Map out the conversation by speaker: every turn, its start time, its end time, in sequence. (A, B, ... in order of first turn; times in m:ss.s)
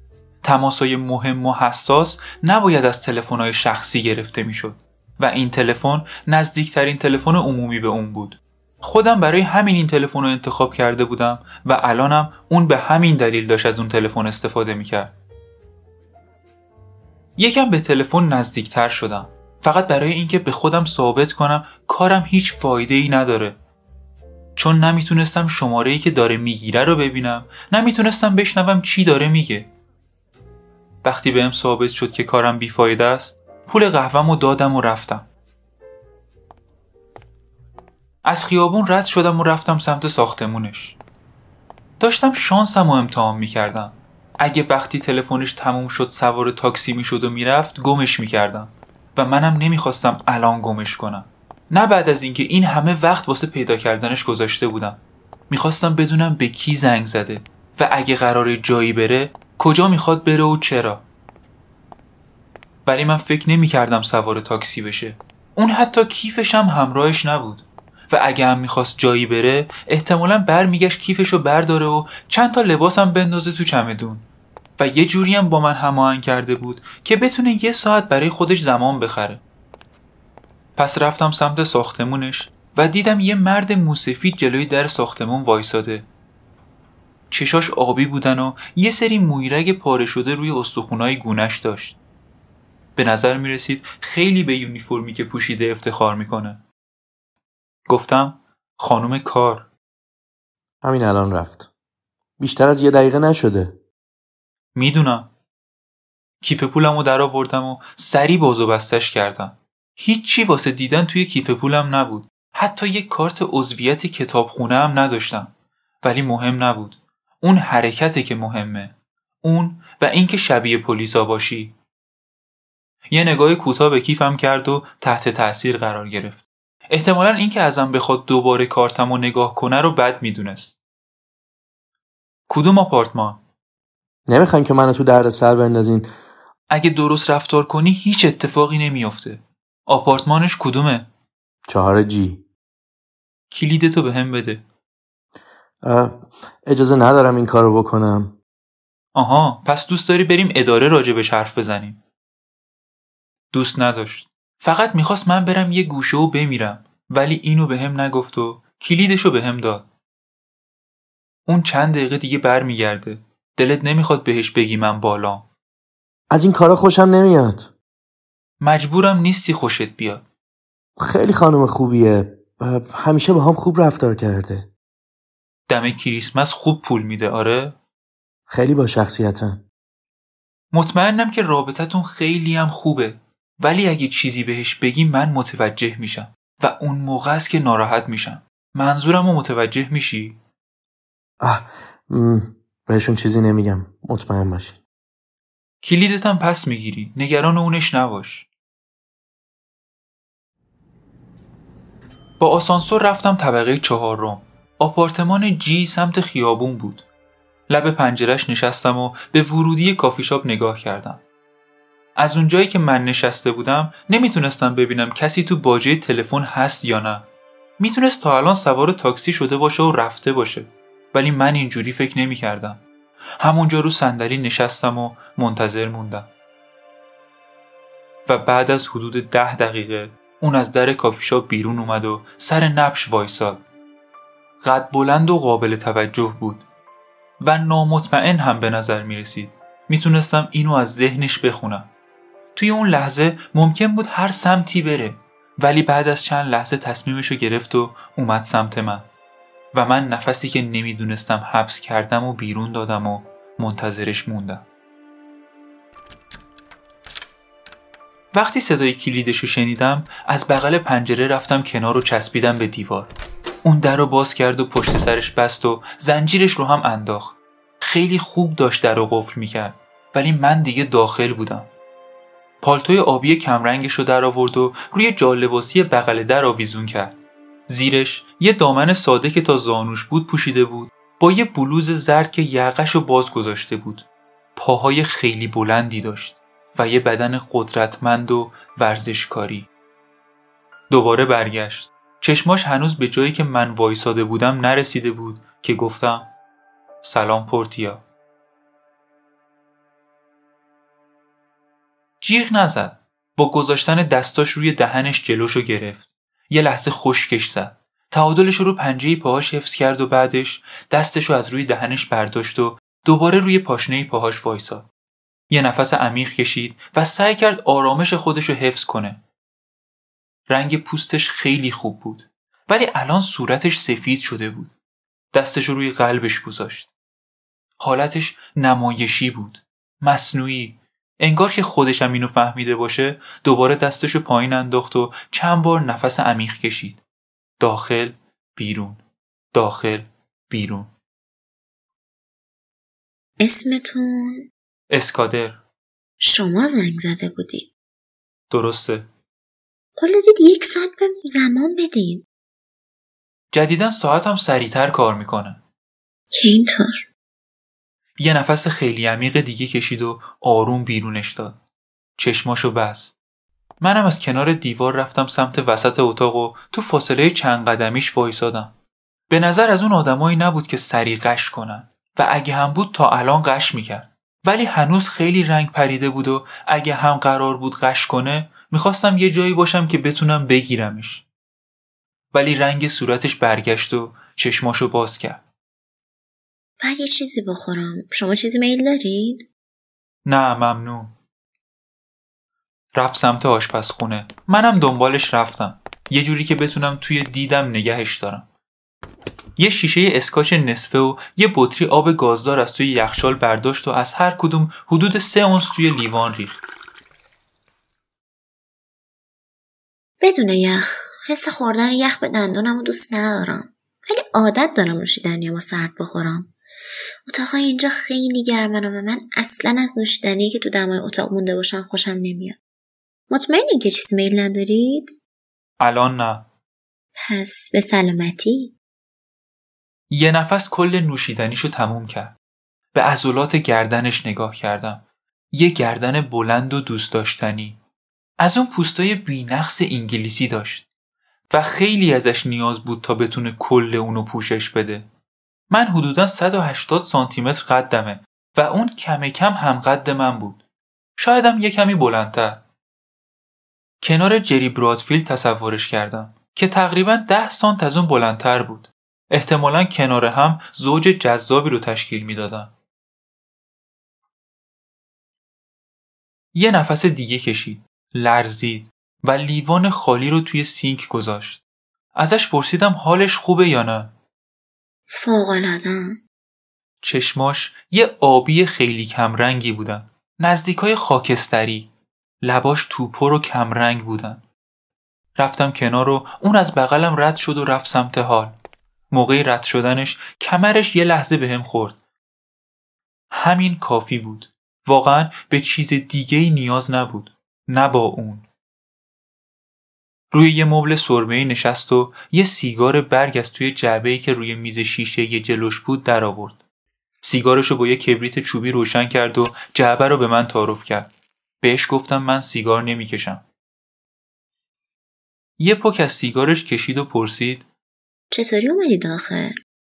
0:00.4-0:15.1 A
0:17.4-0:23.6 A
0:24.6-0:29.7 A
0:31.0-0:35.2 A
0:38.2-0:41.0 A
0:42.0-1:01.0 A
1:02.8-1:14.2 A
1:14.8-1:19.4 A
1:20.8-1:26.0 A
1:27.3-1:32.0 A
1:33.0-1:36.6 A
1:37.9-1:39.7 A
1:40.8-1:41.7 B
1:42.4-1:43.8 B
1:44.7-1:45.3 A
1:46.4-2:01.7 A
2:03.1-2:10.7 A
2:12.5-2:13.4 A
2:14.3-2:16.1 B
2:16.7-2:21.1 A
2:21.7-2:22.4 B
2:23.5-2:24.6 A
2:25.8-2:28.4 B
2:29.1-2:32.0 A
2:33.5-2:39.9 A
2:41.5-2:45.4 A
2:46.3-2:47.7 B
2:48.6-2:50.2 A
2:51.0-2:54.7 B
2:55.7-2:57.8 A
2:58.5-2:59.6 B
3:00.7-3:10.4 A
3:11.4-3:14.8 B
3:15.8-3:18.5 A
3:22.4-3:27.0 A
3:27.7-3:31.2 A
3:32.2-3:37.2 A
3:37.8-3:42.8 A
3:43.4-3:46.3 A
3:48.3-3:53.6 A
3:54.6-3:56.6 A
3:57.4-4:01.9 A
4:02.6-4:09.0 A
4:09.7-4:14.6 A
4:18.3-4:23.1 A
4:23.6-4:31.7 A
4:32.6-4:37.2 A
4:37.7-4:49.7 A
4:50.9-4:56.3 A
4:57.0-4:58.0 A
5:02.2-5:14.9 A
5:15.5-5:19.2 A
5:20.5-5:24.7 A
5:25.3-5:26.9 A
5:27.8-5:37.0 A
5:37.6-5:39.0 A
5:39.5-5:40.9 A
5:43.4-5:44.5 C
5:44.9-5:45.6 A
5:46.2-5:47.7 C
5:48.5-5:49.1 A
5:50.0-5:52.2 C
5:53.5-5:55.6 A
5:56.3-5:57.1 C
5:58.2-6:01.6 A
6:02.2-6:03.1 A
6:03.8-6:08.7 A
6:09.3-6:21.2 A
6:22.3-6:25.4 A
6:26.8-6:29.5 C
6:30.2-6:31.1 A
6:32.9-6:38.4 A
6:39.6-6:46.6 A
6:50.2-6:56.5 C
6:57.2-7:02.6 C
7:03.3-7:05.2 C
7:05.8-7:06.4 A
7:07.2-7:08.7 C
7:10.1-7:12.3 A
7:12.9-7:15.0 A
7:15.5-7:17.8 A
7:18.4-7:20.8 A
7:21.5-7:25.0 A
7:25.7-7:30.6 A
7:31.2-7:32.6 A
7:34.0-7:42.7 A
7:46.5-7:51.6 A
7:52.1-7:54.1 A
7:55.1-7:56.2 C
7:57.0-8:01.9 A
8:02.4-8:04.4 A
8:05.4-8:08.5 A
8:09.1-8:12.0 A
8:13.3-8:18.4 A
8:20.3-8:26.6 A
8:27.2-8:31.1 A
8:31.6-8:33.4 A
8:35.6-8:37.6 A
8:38.3-8:39.5 C